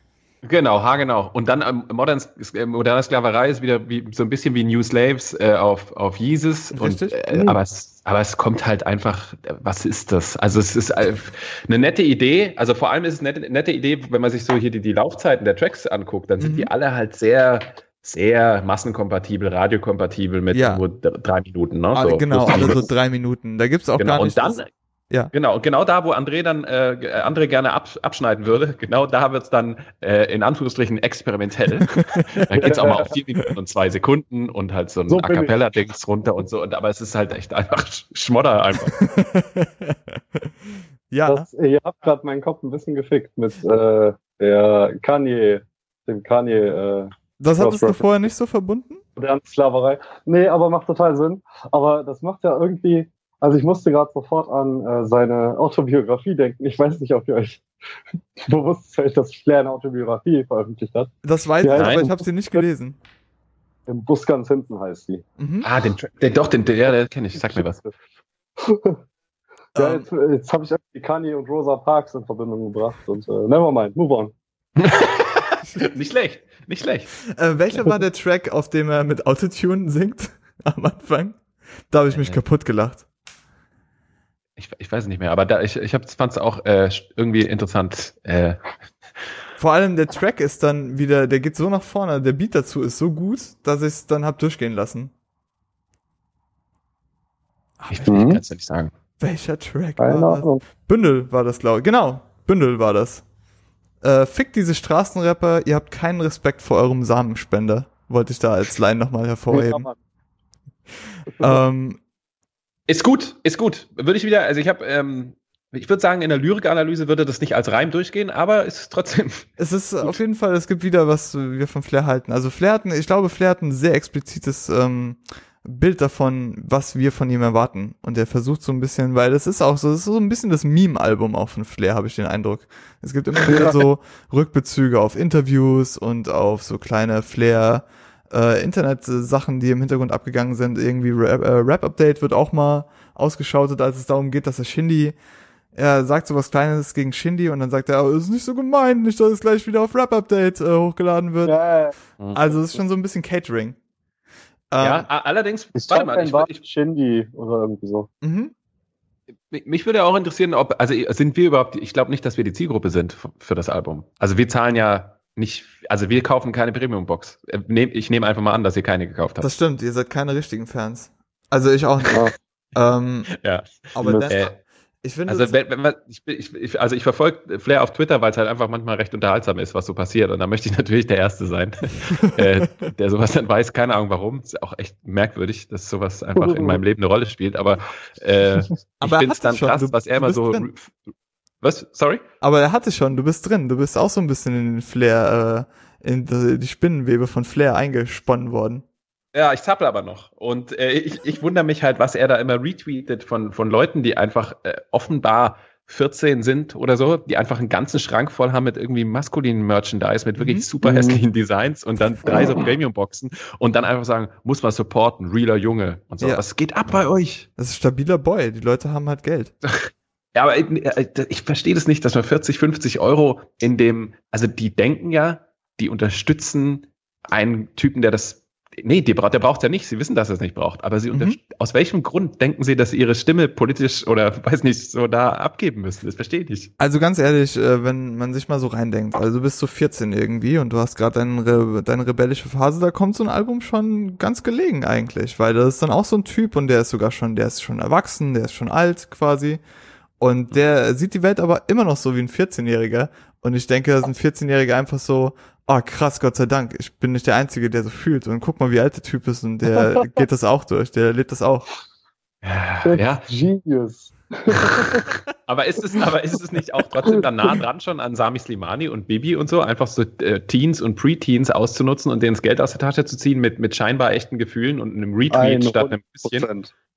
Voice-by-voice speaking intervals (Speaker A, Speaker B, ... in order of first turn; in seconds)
Speaker A: 0.4-22.9, 24.0-24.6, 25.3-38.9, 61.7-62.0, 65.6-67.8, 74.8-77.1, 82.1-82.4, 84.6-88.7, 97.9-98.9, 112.9-119.5, 154.8-156.6, 159.5-169.5, 173.3-174.6, 175.3-191.1, 191.6-192.2, 199.3-217.5, 219.7-236.7, 262.4-263.3, 264.5-276.5
Speaker B: 6.7-7.2, 16.4-16.7, 20.5-20.8, 21.9-25.3, 32.2-32.7, 38.9-40.5, 41.1-41.5, 47.4-49.0, 61.2-63.0, 65.4-65.7, 69.7-70.1, 77.3-83.0, 89.6-95.1, 97.8-98.3, 99.2-103.2, 104.0-109.9, 111.4-112.0, 119.6-145.2, 145.7-151.5, 152.3-153.8, 154.7-155.1, 158.2-158.5, 169.4-173.3, 173.9-174.4, 175.0-175.5, 189.0-190.6, 192.4-198.8, 210.4-210.7, 217.6-219.5, 236.8-249.6, 250.2-261.7
Speaker C: 7.3-7.6, 32.6-33.1, 35.1-35.5, 41.2-48.1, 49.2-57.6, 58.4-62.6, 63.9-65.2, 67.5-67.9, 68.6-69.0, 69.8-74.3, 98.1-98.4, 100.0-100.6, 109.5-109.9, 133.5-133.8, 151.4-151.9, 155.7-158.1, 186.3-186.8, 210.8-211.2, 212.2-212.7, 262.8-265.1, 275.3-276.7